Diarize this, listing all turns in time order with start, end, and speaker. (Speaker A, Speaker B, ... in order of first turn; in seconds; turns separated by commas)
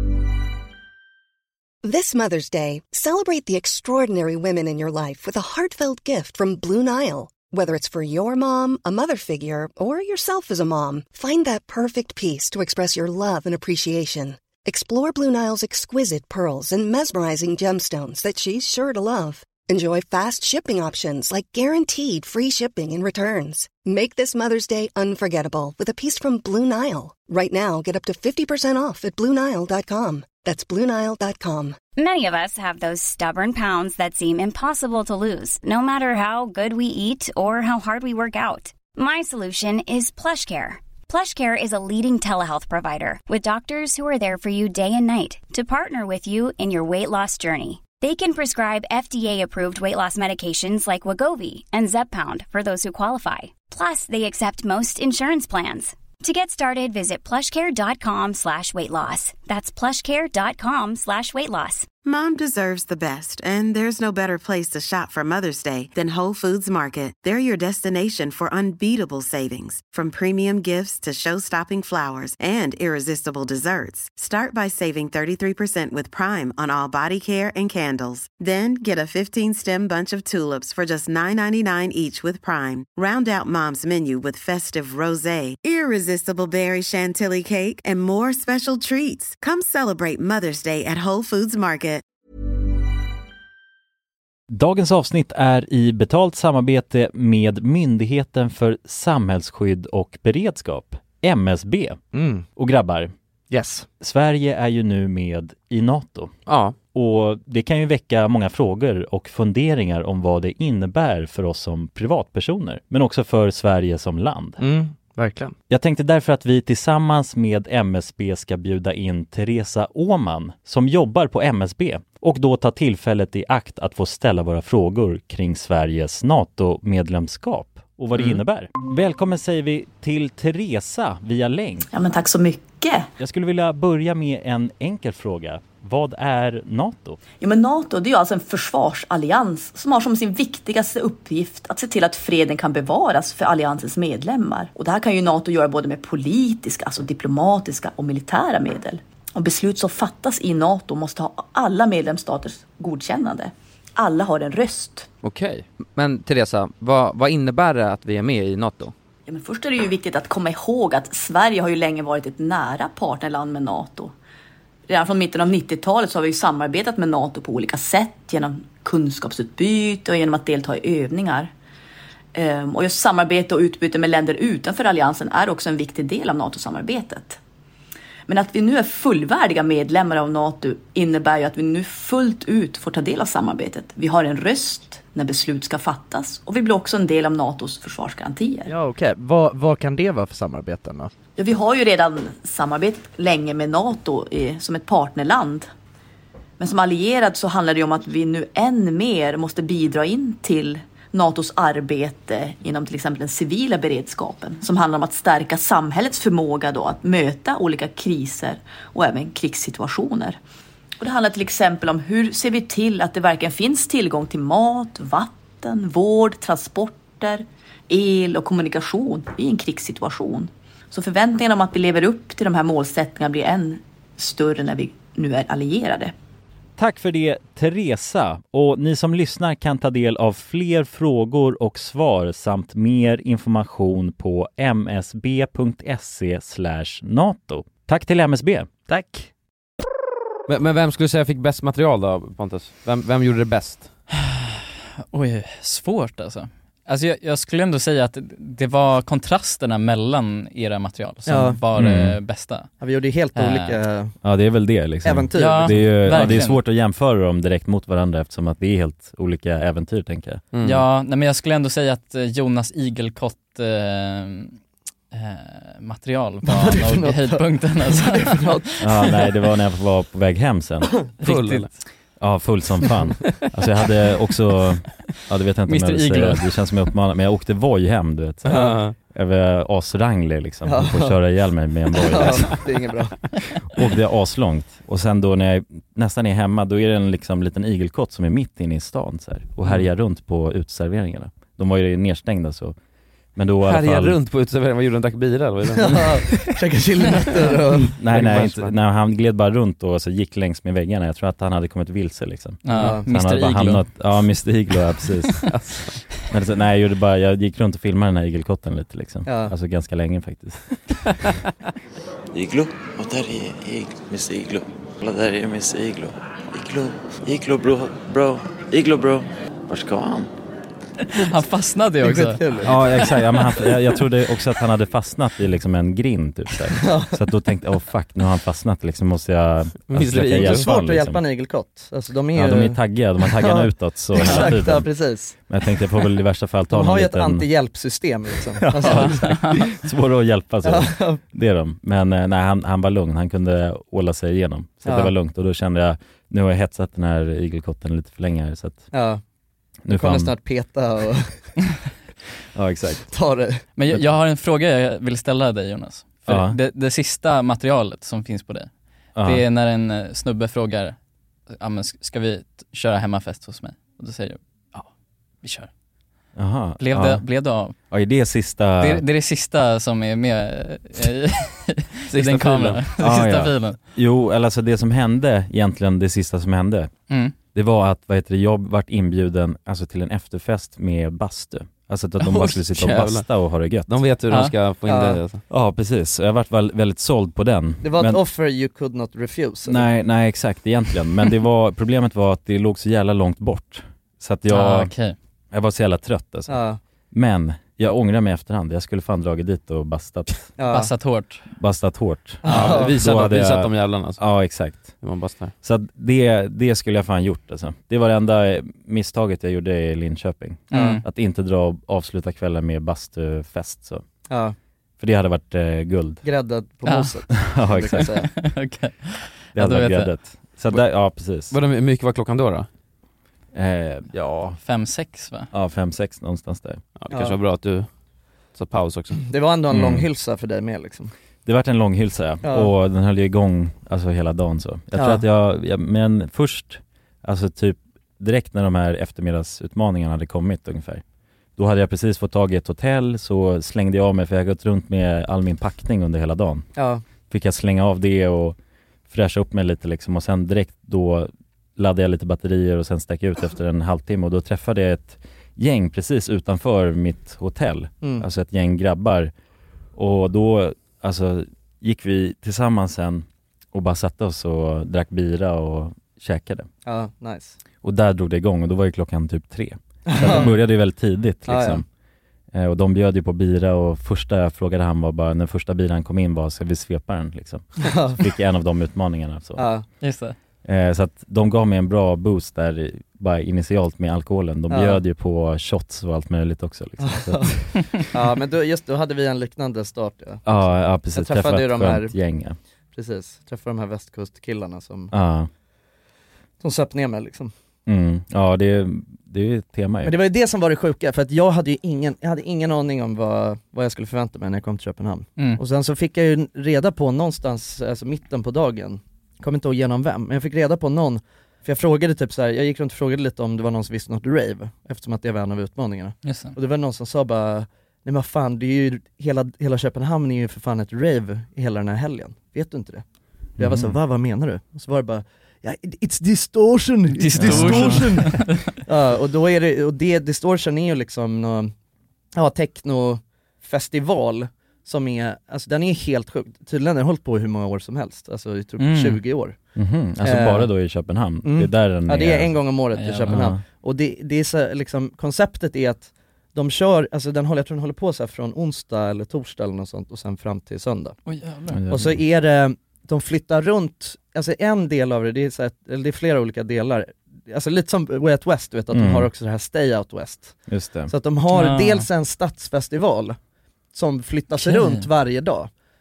Speaker A: 1.8-31.8, Speaker B: 31.9-61.9, Speaker C: 62.0-92.0, Speaker D: 94.5-102.0, Speaker E: 102.1-102.4, Speaker D: 102.5-103.1, Speaker E: 103.5-103.8, Speaker D: 104.0-106.3, Speaker F: 106.5-106.7, Speaker D: 106.9-114.6, Speaker E: 114.6-115.5, Speaker D: 115.7-131.9, Speaker G: 131.9-133.1, Speaker D: 133.2-137.2, Speaker G: 137.4-155.1, Speaker F: 155.2-158.9, Speaker G: 159.3-164.1, Speaker G: 164.9-171.5, Speaker G: 172.3-177.4, Speaker G: 178.3-188.7, Speaker E: 188.7-191.1, Speaker G: 191.4-195.7, Speaker G: 196.6-210.4, Speaker G: 211.0-226.1, Speaker D: 226.8-238.7, Speaker E: 238.9-239.2, Speaker F: 240.5-243.9, Speaker H: 244.2-244.6, Speaker H: 245.1-252.7, Speaker E: 251.3-251.6, Speaker D: 251.8-252.2, Speaker E: 252.8-254.1, Speaker H: 253.3-253.8, Speaker D: 254.2-260.4, Speaker E: 255.0-256.4, Speaker H: 255.3-256.6, Speaker F: 260.5-260.8, Speaker H: 260.6-264.6, Speaker H: 265.1-268.4, Speaker E: 266.4-268.8, Speaker D: 268.8-270.9, Speaker H: 271.2-271.8, Speaker F: 271.2-271.7, Speaker D: 272.2-282.6, Speaker H: 275.7-276.4, Speaker E: 278.5-278.8, Speaker F: 278.5-278.9, Speaker E: 280.6-281.2, Speaker E: 282.0-283.1, Speaker D: 283.7-292.8, Speaker D: 293.4-294.2, Speaker F: 293.6-296.6, Speaker E: 295.8-297.9, Speaker D: 297.9-305.5, Speaker F: 298.1-298.7, Speaker H: 302.6-303.8, Speaker E: 302.7-303.0, Speaker F: 305.4-306.0, Speaker D: 306.3-310.6, Speaker E: 309.2-309.5, Speaker I: 312.3-320.3, Speaker H: 321.0-322.4, Speaker E: 322.0-322.8, Speaker D: 322.6-331.2, Speaker E: 326.8-327.1, Speaker F: 329.9-330.7, Speaker E: 330.3-335.4, Speaker D: 332.3-337.4, Speaker E: 336.7-339.4, Speaker D: 338.6-348.9, Speaker H: 338.8-339.6, Speaker E: 340.6-341.2, Speaker E: 344.8-345.1, Speaker E: 348.9-349.2, Speaker D: 349.8-350.3, Speaker E: 349.9-351.4, Speaker D: 352.5-353.1, Speaker E: 353.1-353.6, Speaker H: 353.8-361.0, Speaker D: 356.3-356.6, Speaker D: 359.1-359.4, Speaker H: 361.5-364.9, Speaker H: 365.4-365.7, Speaker D: 366.4-367.2, Speaker H: 366.8-367.7, Speaker D: 367.9-369.0, Speaker H: 368.8-373.8, Speaker F: 372.1-372.8, Speaker D: 373.0-376.9, Speaker D: 377.5-384.0, Speaker F: 382.2-383.3, Speaker F: 383.9-385.4, Speaker H: 384.3-384.5, Speaker E: 384.9-385.2, Speaker D: 385.5-388.2, Speaker E: 387.8-389.9, Speaker D: 389.6-394.9, Speaker H: 394.5-395.1, Speaker D: 395.5-396.6, Speaker E: 396.5-396.8, Speaker D: 397.1-400.5, Speaker E: 400.6-400.9, Speaker H: 400.7-401.4, Speaker D: 401.5-405.0, Speaker E: 402.4-402.9, Speaker F: 402.4-404.2, Speaker F: 405.0-405.5, Speaker D: 405.6-414.0, Speaker H: 410.7-411.0, Speaker E: 410.7-411.0, Speaker E: 414.3-414.5, Speaker D: 415.0-416.2, Speaker E: 416.2-418.3, Speaker H: 416.9-417.1, Speaker D: 417.4-418.1, Speaker H: 418.0-420.1, Speaker D: 419.5-421.5, Speaker F: 421.5-422.7, Speaker D: 423.5-424.6, Speaker F: 424.1-424.5, Speaker H: 424.6-425.5, Speaker D: 425.5-426.8, Speaker F: 427.0-427.9, Speaker E: 427.1-427.4, Speaker F: 428.5-429.2, Speaker E: 429.1-431.1, Speaker D: 429.7-430.0, Speaker D: 431.4-441.0, Speaker E: 432.4-432.7, Speaker E: 434.9-435.2, Speaker D: 441.6-446.7, Speaker E: 446.8-447.0, Speaker D: 447.3-448.6, Speaker D: 449.1-459.3, Speaker D: 459.9-466.7, Speaker E: 466.9-467.6, Speaker D: 467.8-471.8, Speaker E: 470.1-470.5, Speaker E: 471.4-471.8, Speaker D: 472.5-479.7, Speaker E: 477.8-478.2, Speaker E: 479.6-479.8, Speaker H: 480.0-480.3, Speaker D: 480.6-488.0, Speaker E: 484.7-485.0, Speaker E: 487.0-490.4, Speaker D: 490.4-492.6, Speaker E: 491.1-492.1, Speaker E: 492.9-495.1, Speaker D: 495.1-495.5, Speaker E: 496.6-497.5, Speaker D: 497.9-500.1, Speaker E: 500.0-523.0, Speaker H: 516.2-516.5, Speaker D: 523.6-524.0, Speaker E: 523.6-531.7, Speaker H: 527.1-528.6, Speaker D: 527.4-528.2, Speaker E: 532.3-539.5, Speaker H: 538.8-539.2, Speaker D: 539.7-542.6, Speaker E: 540.2-540.7, Speaker E: 541.4-551.2, Speaker H: 543.0-543.4, Speaker D: 543.3-543.6, Speaker H: 551.2-551.8, Speaker D: 551.7-552.2, Speaker E: 551.9-563.4, Speaker D: 558.9-559.3, Speaker D: 560.7-561.1, Speaker H: 561.5-562.1, Speaker E: 563.9-565.7, Speaker H: 564.6-565.0